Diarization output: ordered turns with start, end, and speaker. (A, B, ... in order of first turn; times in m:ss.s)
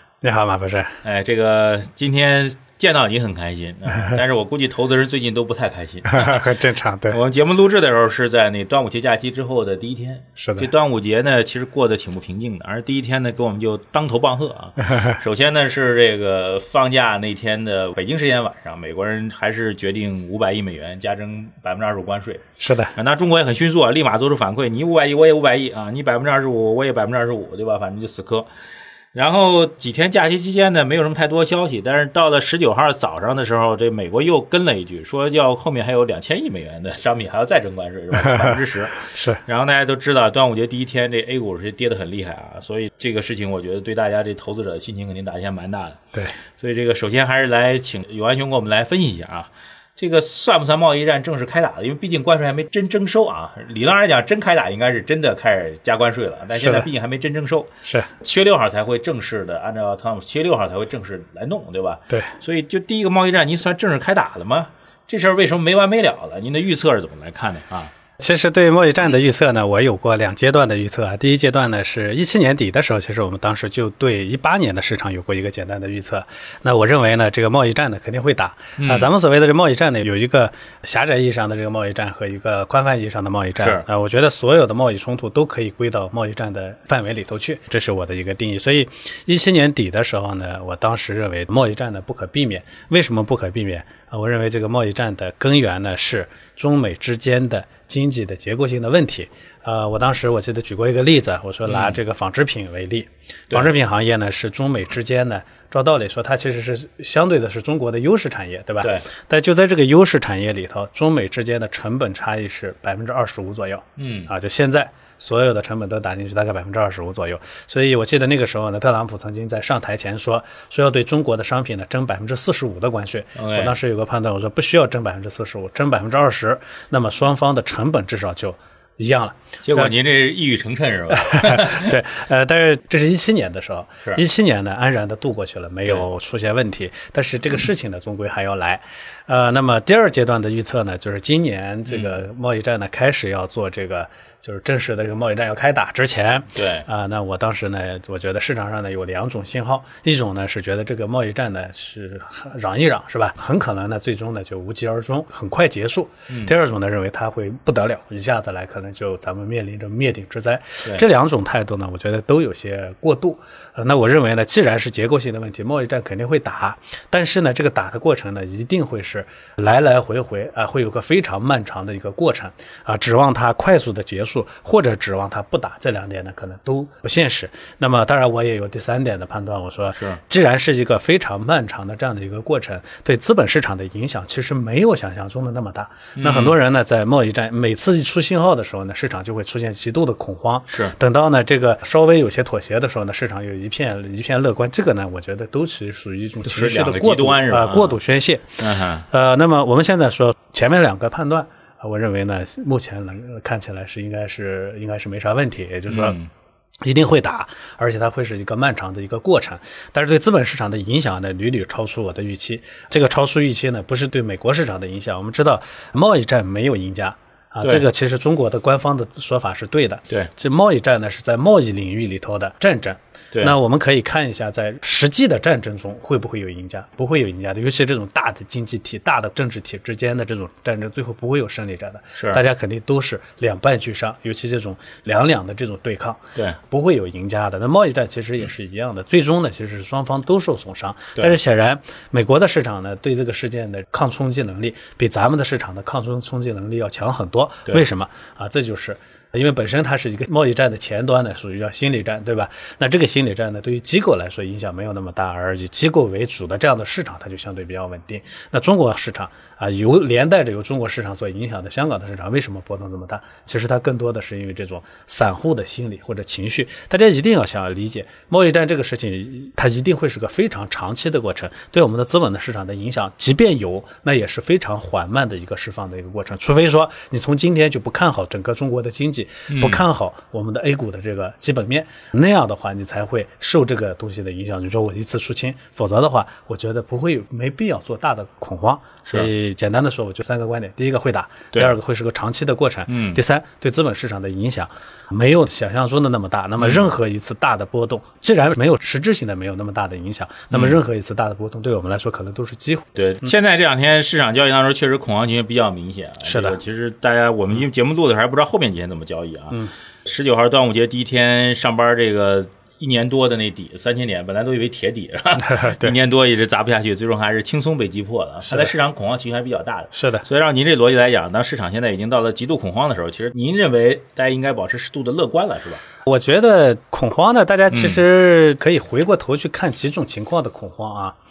0:00.2-0:01.0 A
0:01.0-0:06.4 B
0:06.0-0:07.2 A
0:07.1-0:22.4 B
0:10.4-0:10.7 A
0:22.6-0:23.0 A
0:23.0-0:28.5 B
0:29.1-0:46.0 B
0:38.2-0:39.4 A
0:46.6-0:57.7 B
0:56.5-0:56.9 A
0:57.8-0:58.1 A
0:58.2-1:07.9 B
1:08.2-2:09.9 A
1:18.8-1:19.1 B
1:23.6-1:23.8 B
1:41.7-1:42.0 B
1:54.0-1:54.3 B
2:03.4-2:03.8 B
2:09.6-2:11.9 B
2:11.2-3:26.2 A
2:21.9-2:22.2 B
2:26.6-2:26.9 B
3:06.2-3:06.6 B
3:10.7-3:11.0 B
3:16.4-3:18.0 B
3:18.6-3:19.1 B
3:25.9-3:26.3 B
3:26.8-5:03.3 A
4:39.5-4:39.8 B
4:49.0-4:49.3 B
4:52.9-4:53.2 B
4:56.6-4:56.8 B
5:00.5-5:00.8 B
5:03.0-5:25.8 B
5:06.2-5:06.6 A
5:15.4-5:16.0 A
5:19.9-5:20.2 A
5:26.1-5:31.2 A
5:27.7-5:28.0 B